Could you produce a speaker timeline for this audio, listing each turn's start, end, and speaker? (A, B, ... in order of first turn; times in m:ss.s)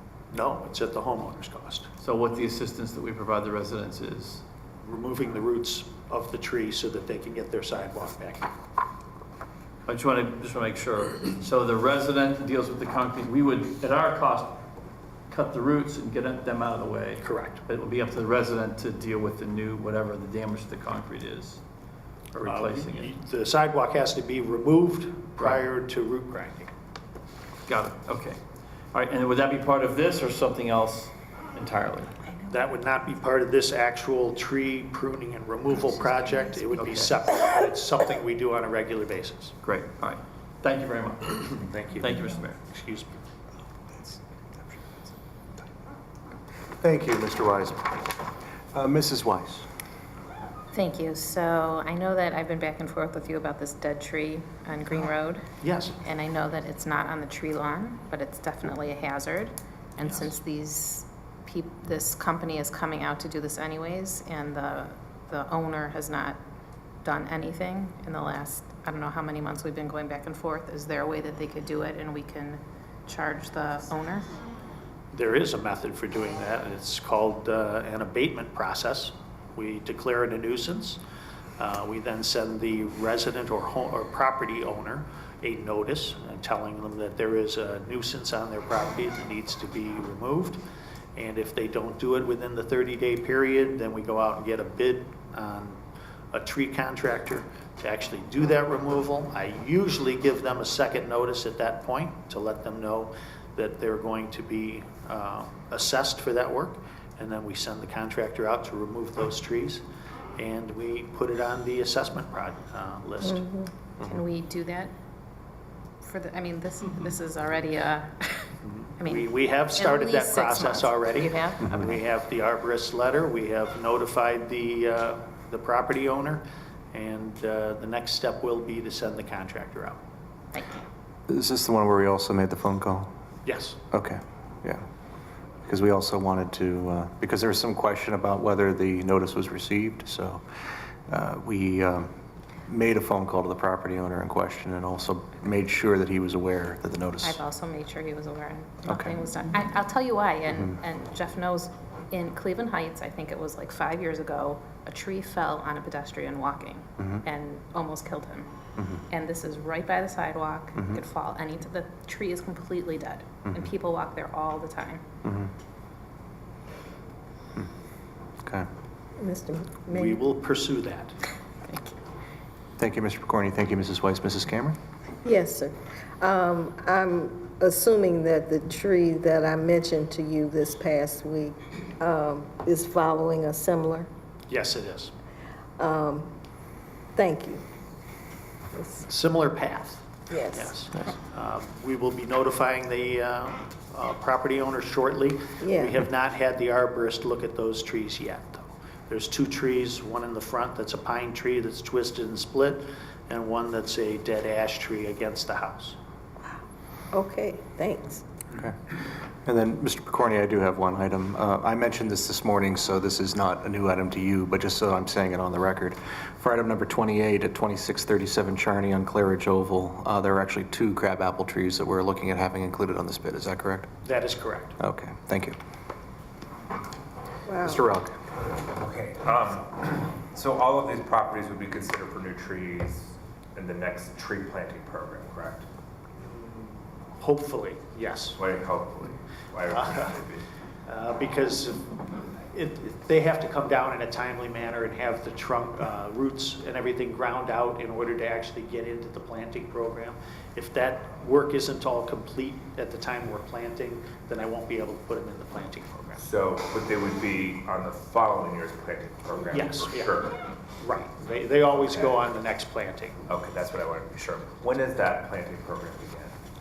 0:00.3-0:01.9 A
0:02.0-0:04.4 B
0:04.8-0:08.5 A
0:09.9-0:14.6 B
0:15.3-0:21.6 B
0:17.2-0:17.6 A
0:22.3-0:23.1 B
0:22.3-0:26.7 A
0:27.7-0:28.4 B
0:28.9-0:32.3 B
0:32.5-0:39.5 A
0:36.7-0:37.1 B
0:39.6-0:42.6 B
0:41.6-0:43.2 A
0:43.9-0:44.8 C
0:46.8-0:48.0 C
0:48.7-0:49.7 C
0:50.7-0:55.4 D
0:55.6-0:56.0 A
0:56.0-1:06.4 D
1:07.0-1:14.2 D
1:15.1-1:21.0 A
1:21.6-1:30.6 A
1:31.2-1:35.8 A
1:36.3-1:49.8 A
1:50.4-1:53.6 A
1:54.0-1:54.9 D
1:56.0-2:01.9 D
1:58.7-2:10.0 A
2:10.5-2:10.8 D
2:11.3-2:13.1 C
2:13.4-2:13.8 A
2:13.9-2:14.8 C
2:15.6-2:20.4 C
2:21.1-2:22.1 C
2:22.7-2:27.4 C
2:27.2-2:38.5 D
2:28.9-2:29.1 C
2:39.1-2:45.0 D
2:45.2-2:45.5 C
2:49.2-2:50.1 E
2:49.9-2:51.1 A
2:52.8-2:54.8 C
2:55.2-3:04.1 E
3:04.5-3:05.1 A
3:05.8-3:06.3 E
3:07.2-3:07.6 E
3:09.0-3:26.0 A
3:27.1-3:28.2 E
3:29.4-3:43.9 C
3:44.0-3:44.8 A
3:44.8-3:45.6 C
3:47.6-3:48.1 C
3:48.7-3:55.6 F
3:57.2-3:58.4 A
3:58.4-4:00.4 F
3:59.7-4:00.1 A
4:00.8-4:01.8 A
4:02.5-4:16.2 A
4:16.2-4:20.4 F
4:19.5-4:20.1 A
4:20.8-4:23.2 A
4:21.8-4:22.1 F
4:23.3-4:26.3 F